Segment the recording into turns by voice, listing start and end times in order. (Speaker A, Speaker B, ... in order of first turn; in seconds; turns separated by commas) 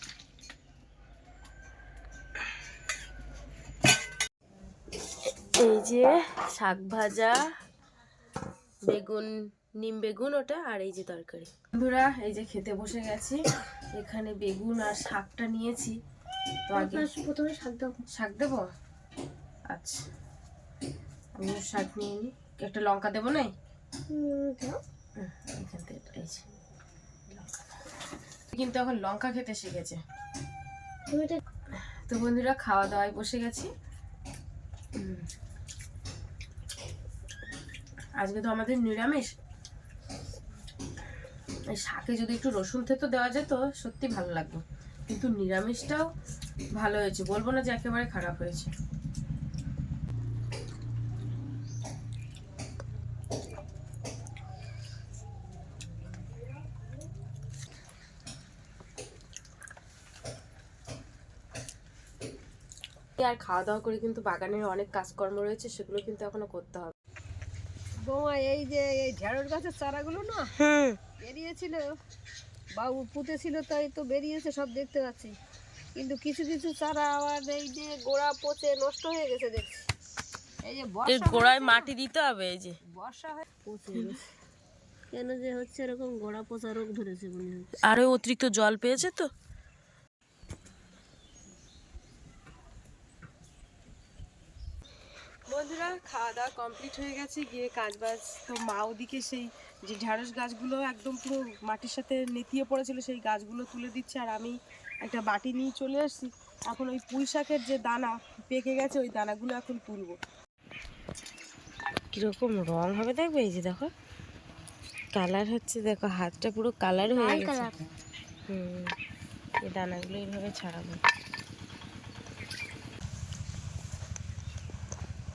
Speaker A: 5.6-7.4, Speaker A: 8.9-13.4, Speaker A: 14.0-16.0, Speaker A: 16.7-17.1, Speaker B: 16.7-18.0, Speaker A: 18.1-18.6, Speaker A: 19.7-20.0, Speaker A: 21.4-23.5, Speaker B: 24.1-24.8, Speaker A: 25.2-26.4, Speaker A: 28.5-30.0, Speaker B: 31.1-31.4, Speaker A: 32.1-33.7, Speaker A: 35.0-35.3, Speaker A: 38.2-39.3, Speaker A: 41.7-46.1, Speaker A: 46.8-48.7, Speaker A: 63.2-66.9, Speaker C: 68.1-70.5, Speaker A: 70.6-71.0, Speaker C: 71.2-71.8, Speaker C: 72.8-75.3, Speaker C: 76.0-79.7, Speaker C: 80.7-81.9, Speaker A: 81.1-82.8, Speaker C: 82.9-84.2, Speaker C: 85.1-87.7, Speaker A: 87.8-89.3, Speaker A: 95.5-110.2, Speaker A: 112.1-113.9, Speaker A: 115.2-117.7, Speaker B: 117.1-117.8, Speaker A: 118.5-118.9, Speaker A: 119.6-121.0